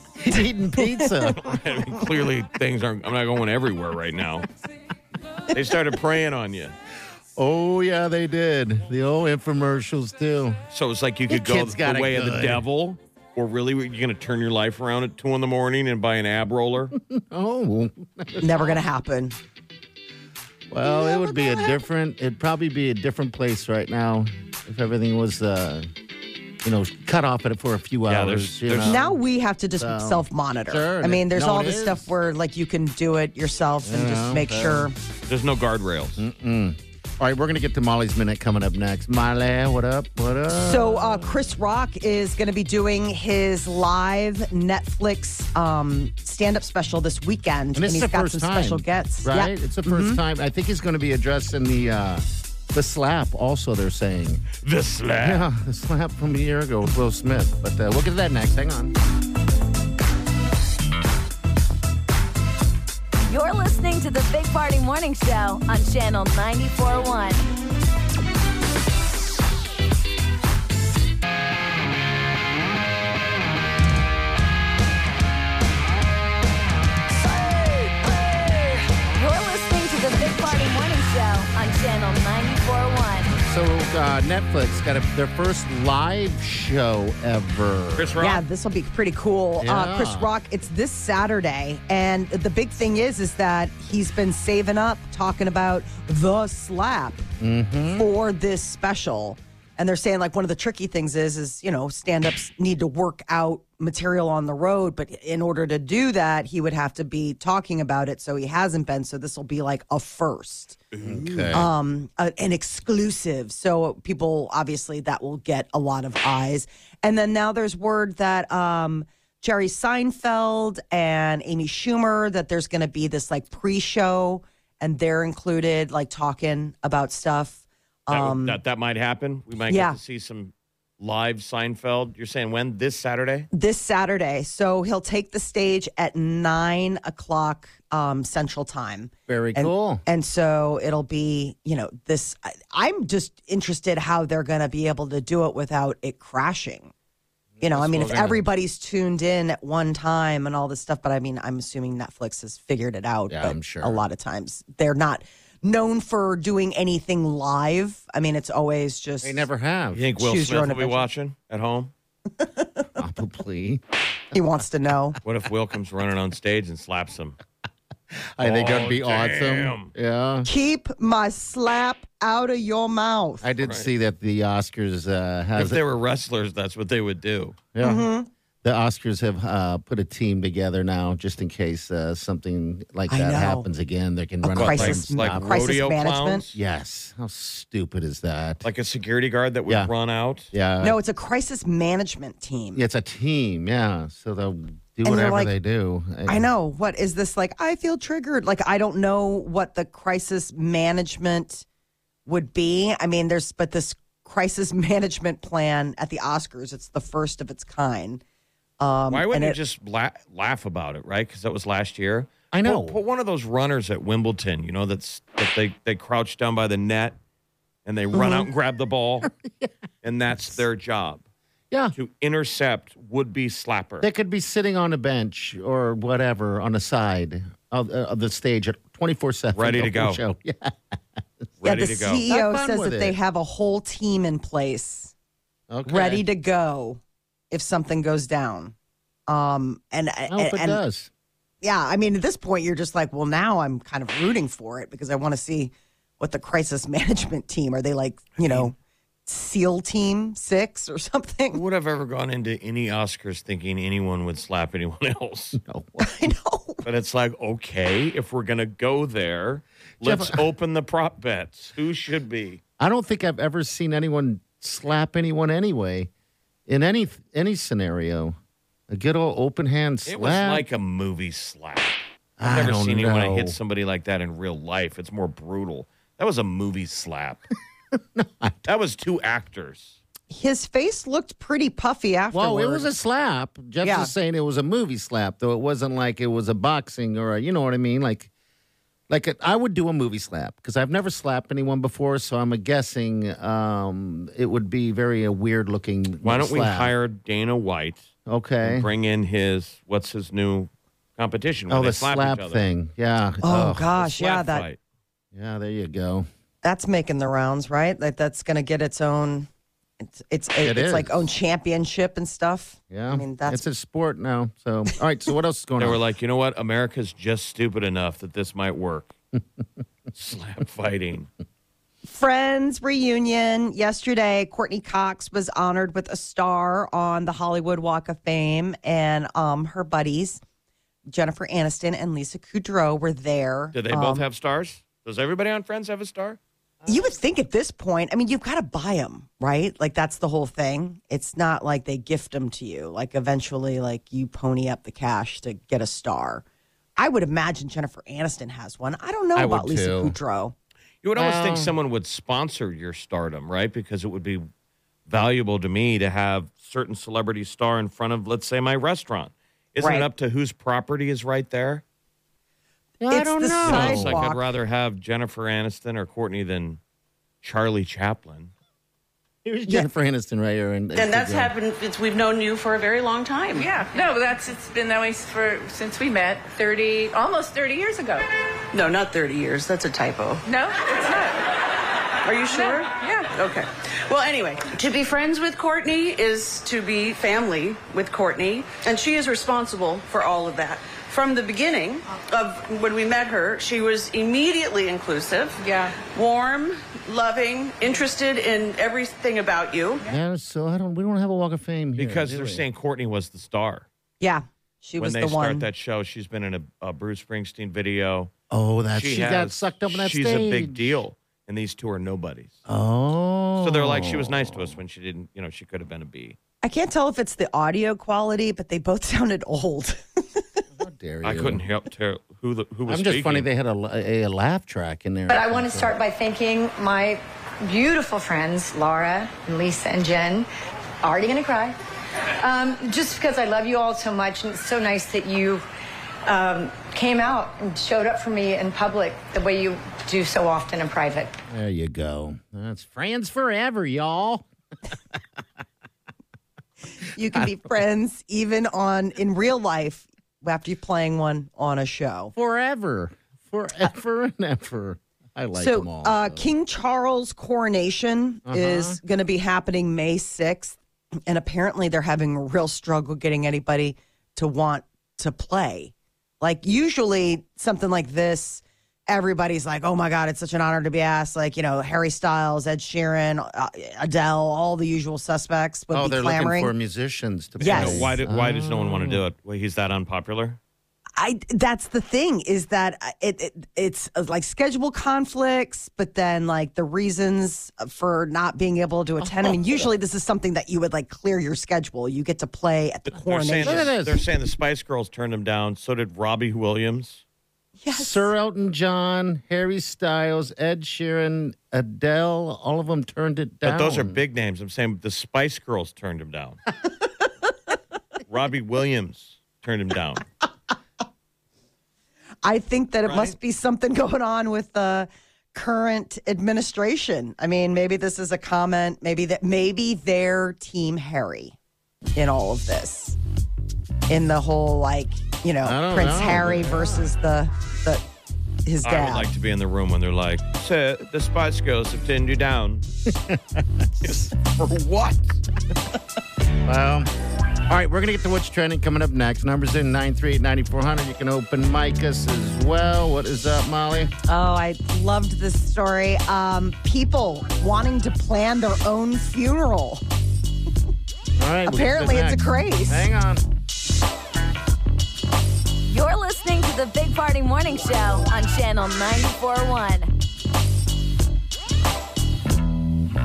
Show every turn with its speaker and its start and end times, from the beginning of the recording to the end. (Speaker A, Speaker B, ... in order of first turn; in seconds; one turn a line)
Speaker A: 0.2-1.6
Speaker B: 0.3-1.1
Speaker C: 1.3-4.5
Speaker C: 5.5-6.8
Speaker A: 7.4-10.6
Speaker C: 10.7-16.9
Speaker A: 11.3-12.6
Speaker A: 16.9-18.8
Speaker B: 18.4-19.4
Speaker A: 20.7-25.9
Speaker B: 20.8-21.8
Speaker A: 26.6-29.2
Speaker C: 28.1-29.0
Speaker B: 28.8-34.9
Speaker A: 29.8-32.1
Speaker A: 33.8-34.9
Speaker C: 35.3-36.2
Speaker A: 36.2-41.4
Speaker B: 40.5-50.2
Speaker A: 47.8-54.5
Speaker C: 54.6-55.5
Speaker A: 55.2-59.0
Speaker D: 63.3-67.5
Speaker D: 77.4-83.3
Speaker A: 83.3-88.2
Speaker C: 88.0-88.4
Speaker B: 88.2-97.2
Speaker A: 89.6-90.3
Speaker A: 97.4-98.1
Speaker B: 97.9-110.8
Speaker C: 110.9-111.6
Speaker A: 111.0-111.7
Speaker B: 111.5-128.6
Speaker C: 128.1-133.5
Speaker B: 129.7-130.0
Speaker B: 133.5-146.9
Speaker A: 139.3-140.0
Speaker A: 147.6-148.4
Speaker B: 147.6-159.5
Speaker C: 147.8-148.2
Speaker A: 153.3-154.0
Speaker A: 159.2-160.0
Speaker C: 159.9-161.9
Speaker B: 160.2-161.1
Speaker B: 162.4-162.8
Speaker A: 163.0-163.8
Speaker B: 164.3-165.2
Speaker C: 165.2-167.4
Speaker A: 168.1-170.5
Speaker C: 168.4-169.9
Speaker B: 170.5-173.5
Speaker A: 173.4-175.8
Speaker C: 173.6-173.9
Speaker C: 175.6-177.6
Speaker A: 177.7-178.1
Speaker B: 177.8-178.3
Speaker A: 178.6-185.7
Speaker B: 183.1-183.7
Speaker B: 184.4-186.4
Speaker C: 184.6-186.6
Speaker A: 186.5-188.6
Speaker C: 188.6-190.5
Speaker A: 190.5-191.0
Speaker B: 190.8-192.8
Speaker A: 192.8-196.5
Speaker B: 195.1-195.5
Speaker B: 196.3-201.6
Speaker B: 202.3-208.2
Speaker B: 208.8-209.6
Speaker C: 209.1-217.2
Speaker A: 212.5-213.0
Speaker C: 217.8-219.3
Speaker B: 218.1-218.5
Speaker A: 219.2-219.7
Speaker C: 220.0-221.2
Speaker C: 221.9-224.1
Speaker A: 224.0-233.2
Speaker C: 229.6-230.2
Speaker C: 231.6-232.2
Speaker B: 231.6-235.1
Speaker A: 235.7-236.2
Speaker B: 235.9-237.0
Speaker B: 237.5-238.7
Speaker B: 239.3-240.8
Speaker A: 240.3-241.1
Speaker B: 241.6-248.7
Speaker B: 249.3-251.6
Speaker C: 251.5-255.6
Speaker A: 255.6-256.1
Speaker B: 256.0-256.8
Speaker C: 256.8-262.6
Speaker A: 260.0-260.4
Speaker A: 262.8-266.1
Speaker A: 266.7-268.4
Speaker A: 268.9-270.6
Speaker C: 270.1-277.4
Speaker A: 272.4-273.6
Speaker A: 278.1-278.6
Speaker C: 278.6-280.0
Speaker B: 280.3-282.9
Speaker A: 282.3-288.3
Speaker B: 283.8-284.1
Speaker A: 289.1-296.9
Speaker C: 296.2-298.1
Speaker A: 298.3-298.9
Speaker C: 298.6-302.6
Speaker A: 301.7-303.9
Speaker B: 303.4-304.6
Speaker C: 304.0-304.8
Speaker A: 305.3-306.3
Speaker B: 306.6-309.5
Speaker B: 310.0-313.6
Speaker A: 310.6-311.3
Speaker A: 312.9-316.0
Speaker C: 315.8-319.1
Speaker C: 320.1-321.3
Speaker B: 322.1-330.4
Speaker B: 331.1-334.3
Speaker C: 333.7-336.4
Speaker B: 336.9-346.4
Speaker B: 347.0-350.6
Speaker A: 349.4-350.1
Speaker C: 351.0-354.5
Speaker A: 351.1-351.8
Speaker C: 355.1-361.8
Speaker B: 359.8-360.1
Speaker A: 363.0-364.2
Speaker B: 363.1-364.5
Speaker C: 363.6-366.8
Speaker C: 367.4-368.5
Speaker A: 369.4-371.5
Speaker E: 370.9-373.7
Speaker F: 373.6-378.2
Speaker E: 378.7-380.4
Speaker F: 380.5-381.5
Speaker E: 382.2-400.1
Speaker F: 382.5-383.3
Speaker F: 395.6-395.9
Speaker A: 400.1-402.6
Speaker C: 402.0-403.9
Speaker B: 404.2-405.7
Speaker C: 405.0-408.3
Speaker A: 408.5-410.9
Speaker C: 408.9-412.6
Speaker A: 412.6-414.8
Speaker C: 413.6-416.4
Speaker B: 416.6-420.6
Speaker A: 420.8-421.6
Speaker C: 421.2-423.5
Speaker A: 422.9-425.9
Speaker G: 425.3-430.5
Speaker G: 431.0-431.8
Speaker G: 432.4-435.6
Speaker G: 436.3-441.4
Speaker A: 441.5-444.5
Speaker B: 447.1-452.3
Speaker A: 452.4-456.5
Speaker B: 455.6-476.7
Speaker A: 458.5-459.0
Speaker A: 475.9-479.2
Speaker B: 477.6-478.1
Speaker C: 477.6-480.6
Speaker B: 481.2-493.9
Speaker A: 489.2-489.9
Speaker C: 493.1-497.2
Speaker A: 493.6-494.2
Speaker B: 497.8-498.3
Speaker A: 497.9-504.2
Speaker C: 503.6-506.6
Speaker C: 508.3-510.2
Speaker B: 512.4-521.6
Speaker C: 513.1-513.3
Speaker B: 522.1-523.2
Speaker B: 524.1-528.0
Speaker A: 525.6-527.1
Speaker B: 528.6-529.3
Speaker C: 528.8-532.9
Speaker A: 533.1-534.3
Speaker C: 534.0-535.4
Speaker A: 536.6-537.1
Speaker A: 537.7-544.1
Speaker B: 544.3-550.0
Speaker A: 551.4-553.4
Speaker B: 551.6-553.0
Speaker D: 555.9-560.1